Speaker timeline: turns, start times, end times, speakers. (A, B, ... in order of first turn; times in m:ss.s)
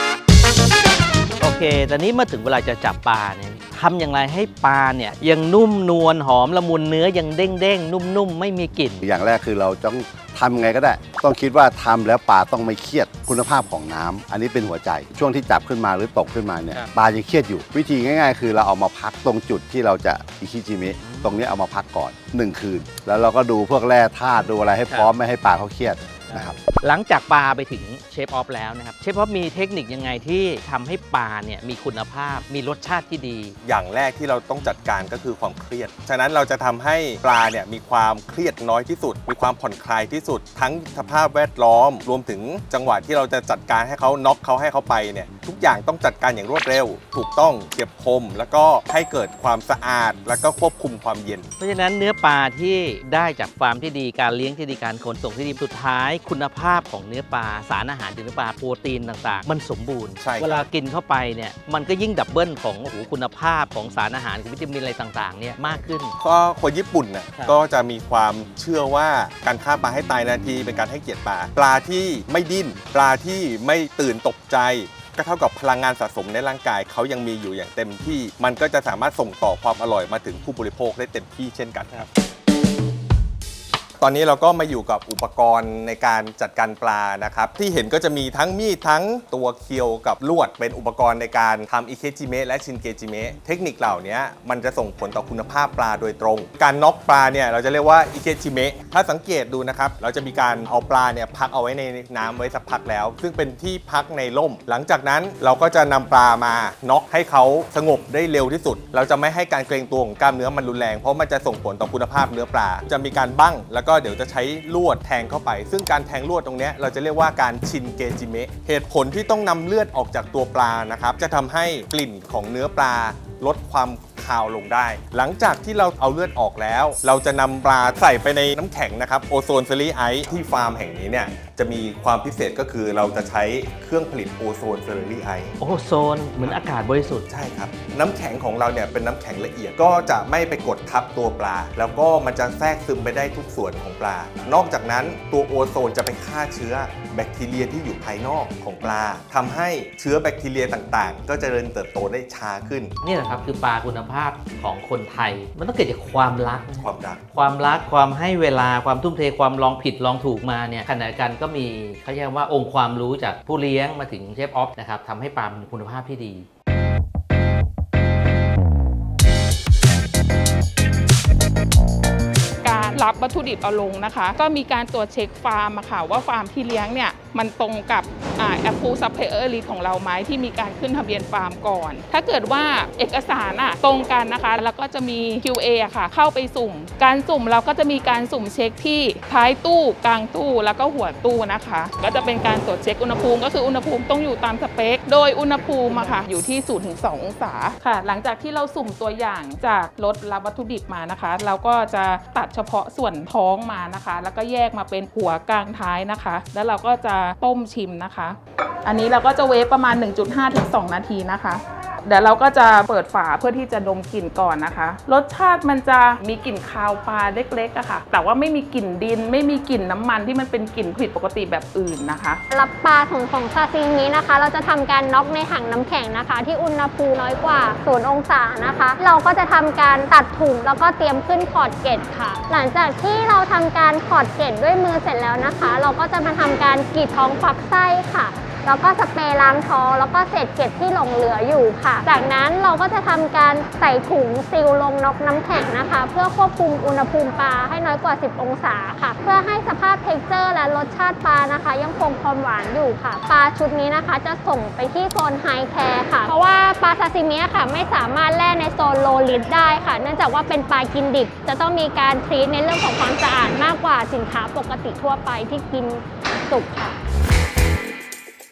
0:01.4-0:09.0 A
0:09.0-0:26.6 B
0:21.0-0:21.5 A
0:26.3-0:33.6 A
0:33.6-0:51.5 C
0:51.6-1:06.2 A
1:00.2-1:00.7 C
1:06.2-1:22.1 C
1:24.0-2:15.5 C
2:15.6-2:17.3 A
2:17.3-2:32.9 C
2:33.0-2:46.5 A
2:36.8-2:37.2 C
2:52.6-3:42.4 D
3:42.5-4:27.0 E